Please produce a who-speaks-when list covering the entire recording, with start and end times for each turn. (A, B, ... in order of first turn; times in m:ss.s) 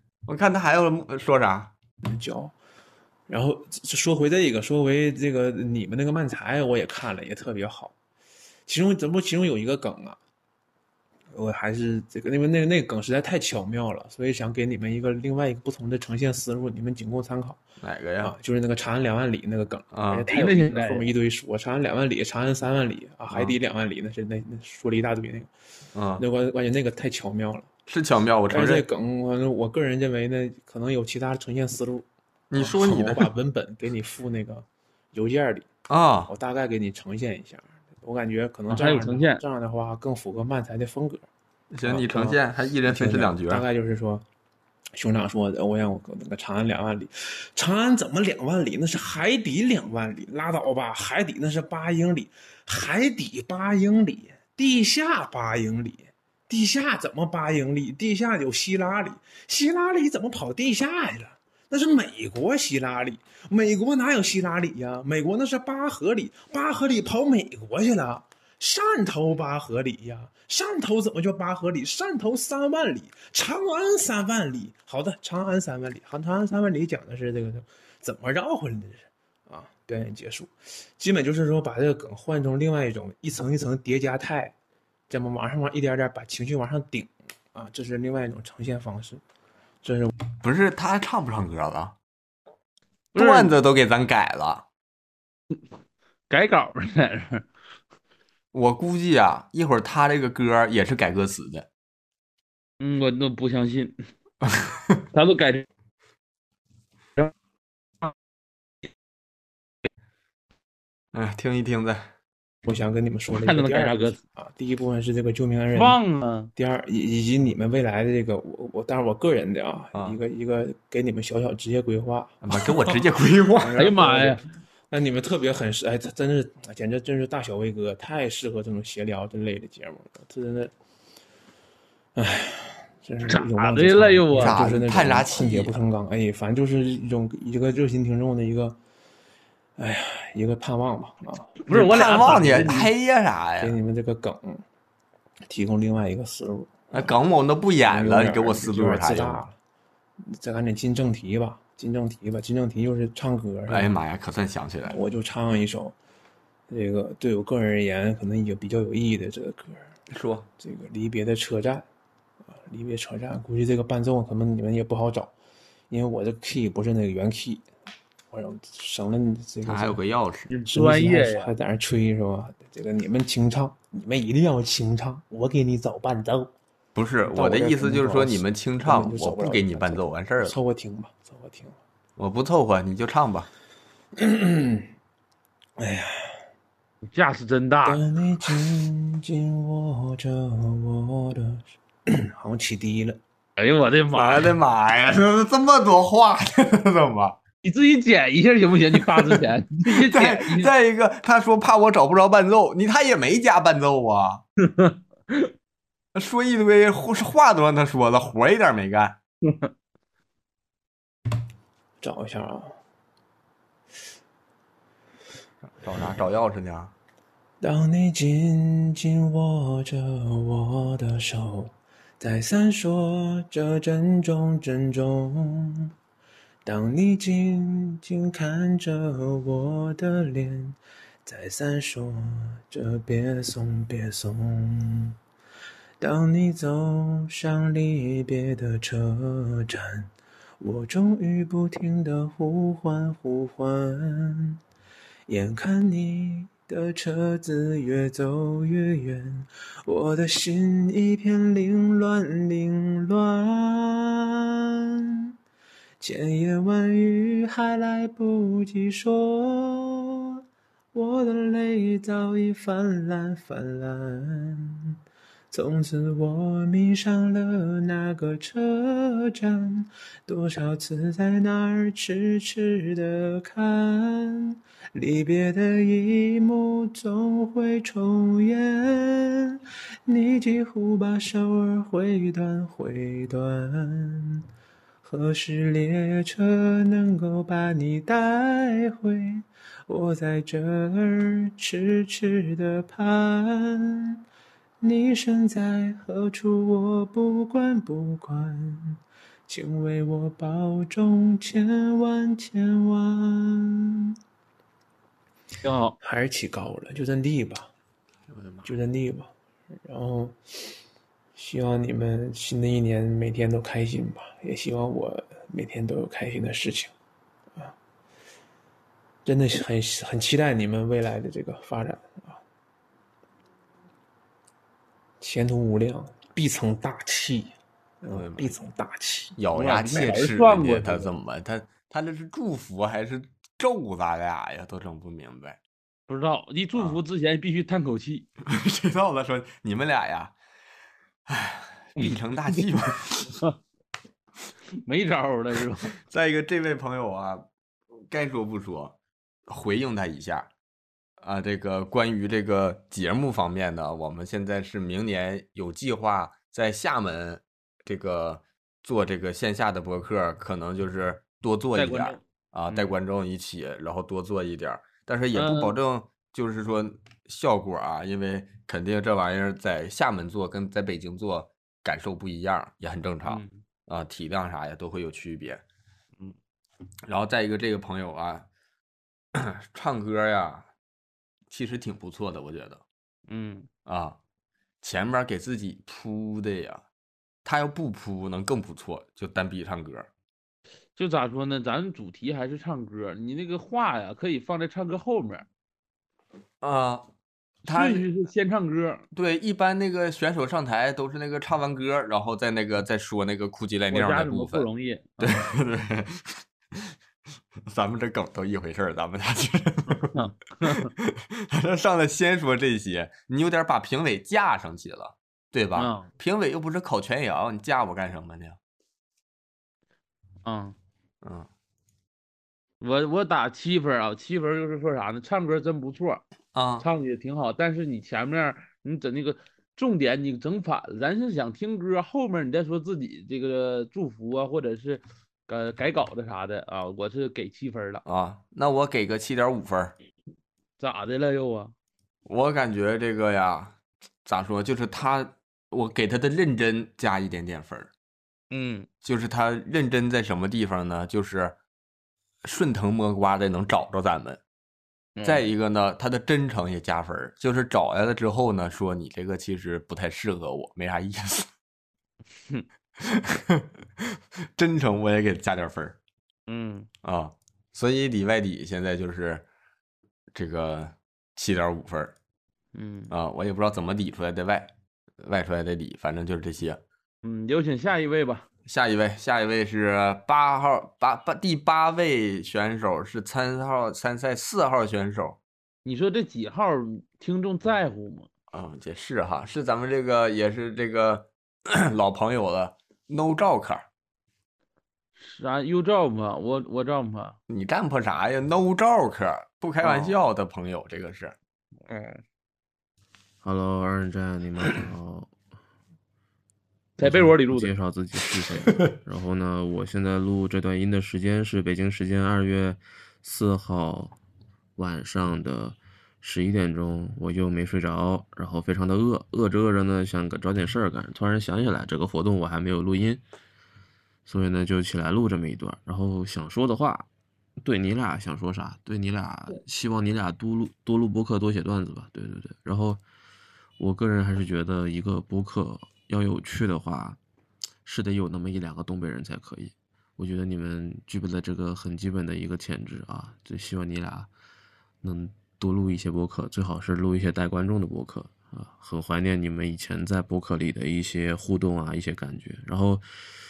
0:00.3-0:01.7 A
0:02.0-0:02.5 B
0:03.3-0:07.9 B
0:08.7-0:10.2 B
0:11.3-0:17.6 B
0:17.8-0:18.3 A
0:18.2-0:25.5 B
0:19.9-0:20.3 A
0:20.3-0:21.1 C
0:23.3-0:23.6 A
0:25.9-0:26.2 A
0:26.2-0:27.7 B
0:27.9-0:28.8 A
0:28.5-0:35.7 B
0:32.5-0:33.3 A
0:35.9-0:36.3 A
0:36.3-0:41.2 B
0:38.7-0:39.4 C
0:41.7-0:43.6 A
0:41.8-0:44.2 B
0:45.0-1:24.5 B
1:25.1-1:29.2 B
1:29.8-1:30.1 B
1:30.4-1:31.9 A
1:33.1-1:33.5 C
1:33.1-1:34.6 A
1:36.3-1:37.5 C
1:38.5-1:41.6 A
1:42.8-1:44.0 C
1:44.4-1:45.0 A
1:45.1-1:45.6 C
1:51.1-1:52.1 A
1:52.6-1:56.0 B
1:53.4-1:54.2 C
1:55.7-1:56.5 C
1:56.6-2:02.4 B
2:02.4-2:03.8 A
2:03.6-2:10.7 B
2:03.8-2:04.4 C
2:12.2-2:18.8 B
2:13.3-2:14.6 C
2:14.3-2:15.8 A
2:19.8-2:21.6 B
2:21.6-2:22.9 C
2:21.7-2:23.8 A
2:23.6-2:24.6 B
2:25.5-2:27.0 B
2:26.9-2:29.4 A
2:27.9-2:29.5 B
2:30.3-2:33.9 B
2:33.7-2:35.0 A
2:34.9-2:35.9 B
2:36.7-2:39.9 B
2:40.1-2:40.5 A
2:40.6-2:41.8 B
2:42.5-2:45.3 B
2:45.9-2:47.6 B
2:48.3-2:50.0 B
2:49.6-2:50.5 A
2:50.5-2:51.5 C
2:50.6-2:56.5 B
2:56.9-3:00.6 A
2:57.3-3:01.8 B
3:02.2-3:03.5 A
3:04.2-3:04.9 B
3:05.8-3:06.4 B
3:07.1-3:08.0 C
3:07.8-3:13.2 B
3:13.6-3:14.5 C
3:14.1-3:17.4 A
3:17.6-3:20.7 C
3:19.0-3:24.4 A
3:24.6-3:25.5 C
3:26.1-3:29.2 A
3:32.0-3:32.8 B
3:35.7-3:36.9 A
3:37.6-3:45.9 B
3:46.6-3:55.2 B
3:56.0-4:04.6 B
4:05.3-4:15.2 B
4:16.0-4:20.4 B
4:20.9-4:25.0 B
4:25.5-4:44.4 B
4:45.0-4:54.2 B
4:54.8-5:04.1 B
5:05.6-5:06.0 C
5:06.0-5:07.7 B
5:08.3-5:08.7 A
5:08.6-5:09.3 B
5:09.8-5:10.6 B
5:11.3-5:16.9 B
5:19.2-5:22.4 B
5:25.2-5:30.1 B
5:28.1-5:28.6 A
5:29.3-5:35.6 A
5:29.6-5:31.1 C
5:36.1-5:38.2 C
5:38.4-5:40.3 A
5:41.3-5:43.3 A
5:44.8-5:45.9 C
5:46.1-5:47.5 A
5:48.1-5:48.9 A
5:49.5-5:50.5 A
5:51.2-6:15.6 A
6:01.7-6:02.9 C
6:05.3-6:05.7 C
6:13.2-6:13.5 C
6:17.1-6:18.5 A
6:19.3-6:20.7 A
6:21.5-6:22.8 A
6:23.3-6:23.7 C
6:23.8-6:24.2 A
6:24.8-6:26.8 A
6:27.4-6:30.1 A
6:31.0-6:35.4 C
6:36.6-6:37.1 A
6:37.6-6:38.0 A
6:37.6-6:39.0 C
6:39.1-6:44.7 A
6:43.9-6:45.5 C
6:45.2-6:46.9 A
6:47.7-6:50.1 A
6:49.9-6:50.9 C
6:50.7-6:58.6 A
6:55.7-6:56.1 C
7:00.4-7:00.7 C
7:01.2-7:01.5 A
7:02.8-7:06.2 C
7:06.5-7:06.8 A
7:06.8-7:18.0 C
7:18.0-7:19.9 A
7:20.8-7:21.7 C
7:22.2-7:27.9 A
7:28.5-7:28.9 C
7:29.0-7:31.6 A
7:32.4-7:34.4 A
7:35.2-7:35.5 C
7:35.2-7:41.5 A
7:43.0-7:43.6 A
7:44.6-7:46.0 A
7:46.5-7:46.9 C
7:47.0-7:49.4 A
7:50.3-7:52.1 A
7:52.7-7:53.1 C
7:53.1-7:56.8 A
7:57.2-7:58.5 C
7:58.6-8:05.4 A
8:05.8-8:08.3 C
8:08.5-8:13.8 A
8:15.2-8:17.4 C
8:17.5-8:21.3 A
8:19.8-8:20.2 C
8:21.9-8:22.2 C
8:23.4-8:25.3 D
8:27.0-8:27.7 C
8:27.0-8:34.2 D
8:34.8-8:43.2 D
8:44.2-8:53.0 D
8:53.8-8:57.2 D
8:57.8-9:04.3 D
9:05.0-9:13.0 D